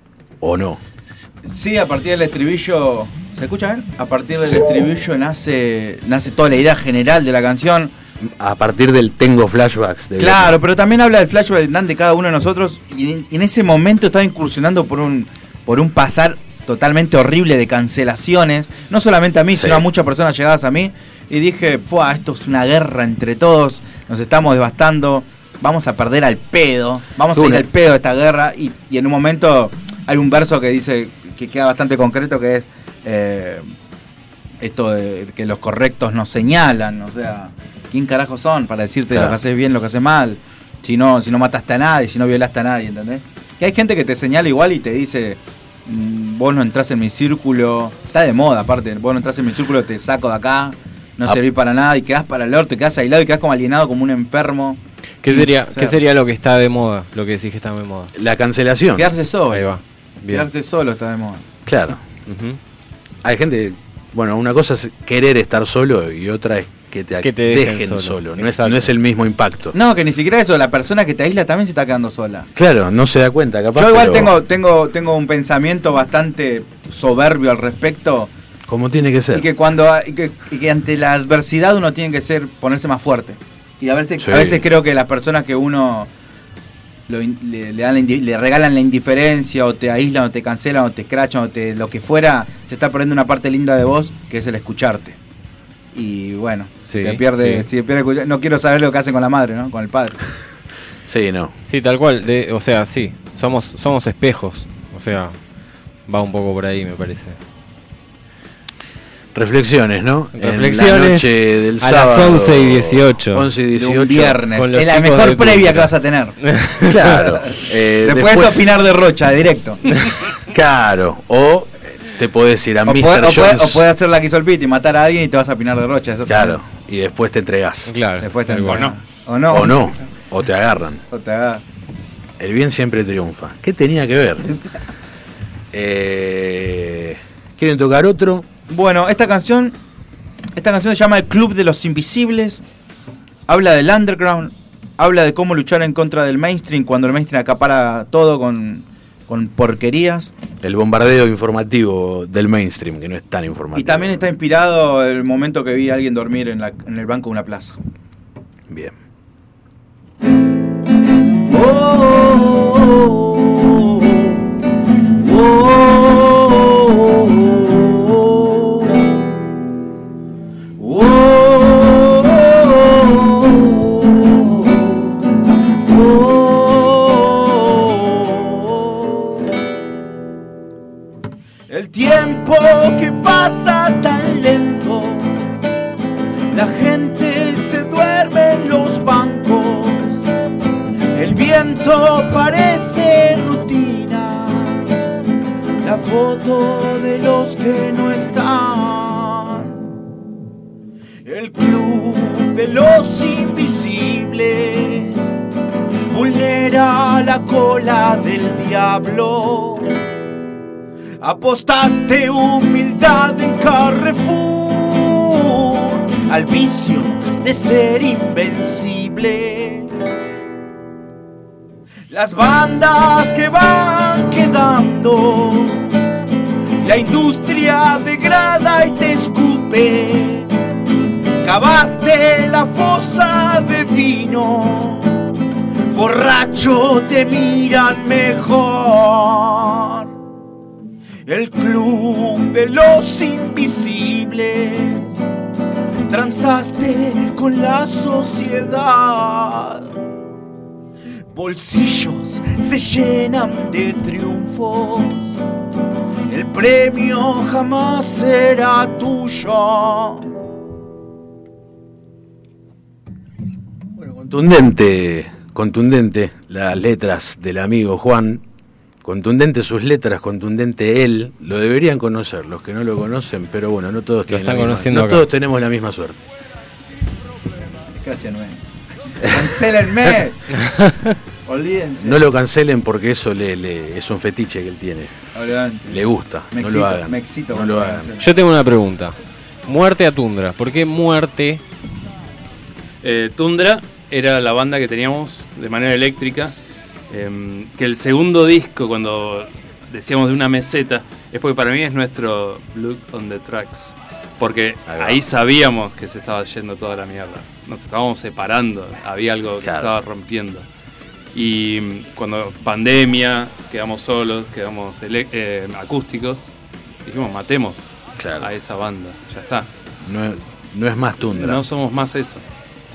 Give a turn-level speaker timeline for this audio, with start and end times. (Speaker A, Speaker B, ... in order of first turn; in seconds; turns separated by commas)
Speaker A: 0.4-0.8, Speaker B: 1.4-7.9, Speaker A: 8.2-10.6, Speaker B: 10.2-33.6, Speaker A: 19.5-19.9, Speaker A: 27.3-27.7, Speaker B: 34.6-56.0, Speaker A: 39.1-39.4, Speaker C: 55.2-58.1, Speaker A: 58.1-59.1, Speaker B: 59.0-59.7, Speaker C: 59.5-60.5, Speaker B: 60.3-61.5, Speaker A: 61.6-62.0, Speaker C: 62.3-62.6, Speaker A: 63.2-69.8, Speaker C: 67.2-68.9, Speaker B: 69.7-72.5, Speaker A: 72.5-74.4, Speaker B: 73.7-78.3, Speaker A: 78.7-79.5, Speaker B: 79.3-86.1, Speaker A: 84.2-84.7, Speaker B: 87.1-95.2, Speaker B: 95.9-100.2, Speaker C: 96.8-97.7, Speaker A: 101.0-101.5, Speaker C: 101.7-105.3, Speaker C: 106.1-107.4, Speaker A: 109.3-114.4, Speaker C: 110.3-113.5, Speaker B: 113.7-116.3, Speaker C: 114.5-117.1, Speaker A: 116.8-118.7, Speaker B: 118.0-119.8, Speaker A: 120.5-123.9, Speaker B: 122.8-126.6, Speaker A: 126.3-127.9, Speaker C: 127.9-128.9, Speaker B: 128.2-129.9, Speaker A: 129.5-131.0, Speaker B: 131.1-131.6, Speaker A: 132.4-134.6, Speaker A: 135.7-138.5, Speaker B: 138.7-139.8, Speaker B: 140.6-142.6, Speaker B: 143.5-150.3, Speaker A: 150.6-154.2, Speaker B: 153.7-157.8, Speaker A: 158.7-158.9, Speaker B: 161.5-164.4, Speaker B: 165.2-169.1, Speaker B: 170.8-175.1, Speaker B: 175.9-179.4, Speaker B: 181.7-185.3, Speaker B: 186.5-190.2, Speaker B: 191.1-194.9, Speaker B: 195.8-199.8, Speaker B: 201.2-205.3, Speaker B: 206.1-209.9, Speaker B: 211.2-219.9, Speaker B: 222.1-225.8, Speaker B: 226.8-230.5, Speaker B: 231.4-235.1, Speaker B: 235.9-240.1, Speaker B: 241.3-245.2, Speaker B: 246.1-249.9, Speaker B: 251.3-255.4, Speaker B: 256.3-260.2, Speaker A: 264.0-268.4, Speaker A: 269.0-276.2, Speaker C: 274.3-275.2, Speaker B: 277.9-278.6, Speaker B: 279.2-280.4, Speaker B: 281.4-282.2, Speaker A: 282.0-285.1, Speaker B: 285.3-288.2, Speaker A: 285.9-288.1, Speaker C: 288.2-289.1, Speaker C: 289.6-291.6, Speaker D: 293.0-296.5, Speaker D: 297.1-310.6, Speaker A: 304.9-305.2, Speaker A: 309.6-309.9, Speaker D: 311.3-316.5, Speaker D: 317.0-319.7, Speaker A: 318.2-318.5, Speaker A: 320.0-321.6, Speaker D: 321.3-322.4